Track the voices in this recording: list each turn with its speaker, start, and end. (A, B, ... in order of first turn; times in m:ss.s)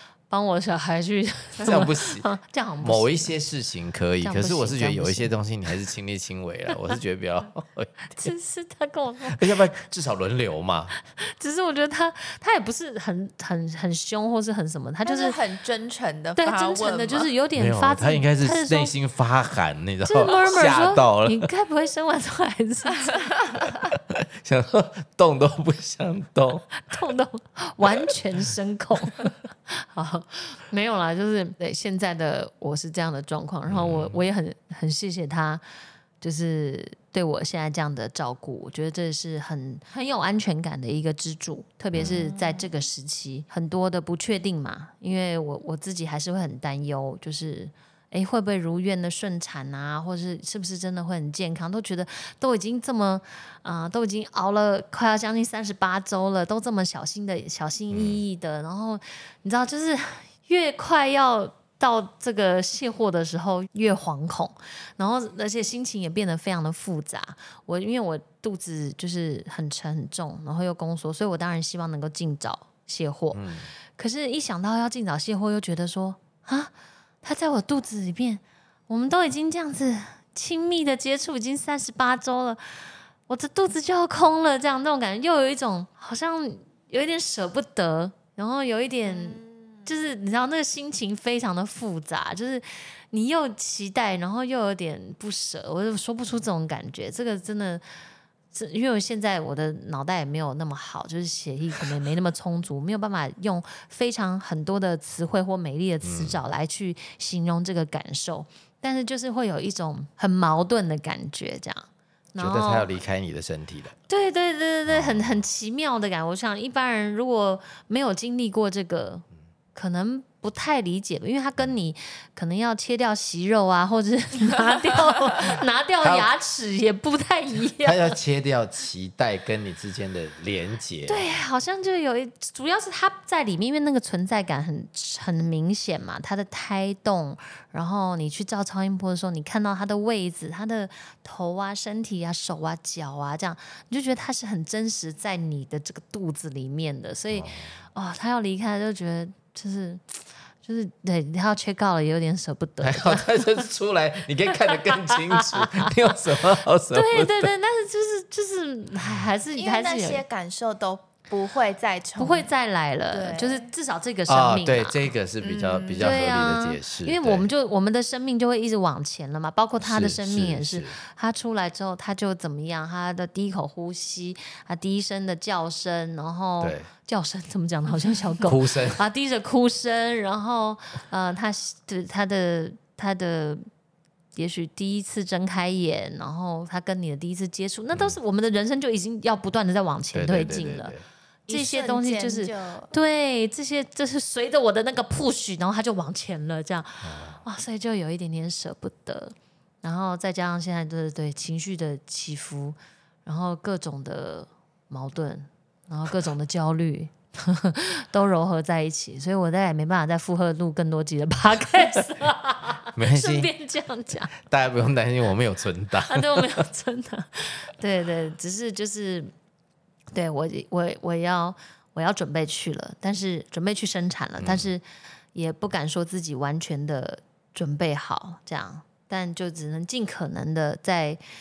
0:00.3-0:03.3 A
0:01.6-0:02.3 B
0:02.8-0:08.3 B
0:04.2-0:05.3 A
0:08.1-0:09.5 A
0:09.3-0:10.9 B
0:11.2-0:15.4 A
0:15.0-0:17.3 C
0:16.4-0:18.9 A
0:17.6-0:21.5 B
0:20.0-0:23.3 A
0:23.8-0:26.7 B
0:26.8-0:35.6 A
0:33.7-0:34.2 B
0:36.2-1:13.4 A
0:41.9-0:42.2 B
0:42.0-0:42.7 C
0:57.9-0:58.2 B
1:13.3-1:13.7 B
1:13.9-1:37.8 A
1:29.0-1:29.6 C
1:38.5-1:52.9 A
1:46.0-1:46.4 B
1:52.4-1:53.9 B
1:54.1-2:08.2 A
1:54.9-1:55.3 B
2:06.0-2:06.3 B
2:07.8-2:11.2 B
2:11.1-2:33.3 A
2:27.3-2:27.7 B
2:32.8-2:37.5 B
2:35.3-2:35.8 A
2:36.9-2:40.2 A
2:39.5-2:42.5 C
2:42.2-2:45.1 A
2:43.1-2:43.7 C
2:44.3-2:47.5 B
2:45.4-2:46.2 C
2:46.0-3:03.6 A
2:49.8-2:51.0 B
2:56.6-2:56.9 B
2:58.4-2:59.0 B
3:04.4-3:10.9 A
3:10.1-3:11.0 B
3:11.5-3:12.9 C
3:11.5-3:34.3 A
3:17.0-3:17.4 B
3:32.9-3:33.5 B
3:34.4-3:36.6 B
3:36.0-3:39.3 A
3:40.1-3:44.8 A
3:44.4-3:44.7 B
3:45.3-3:51.2 A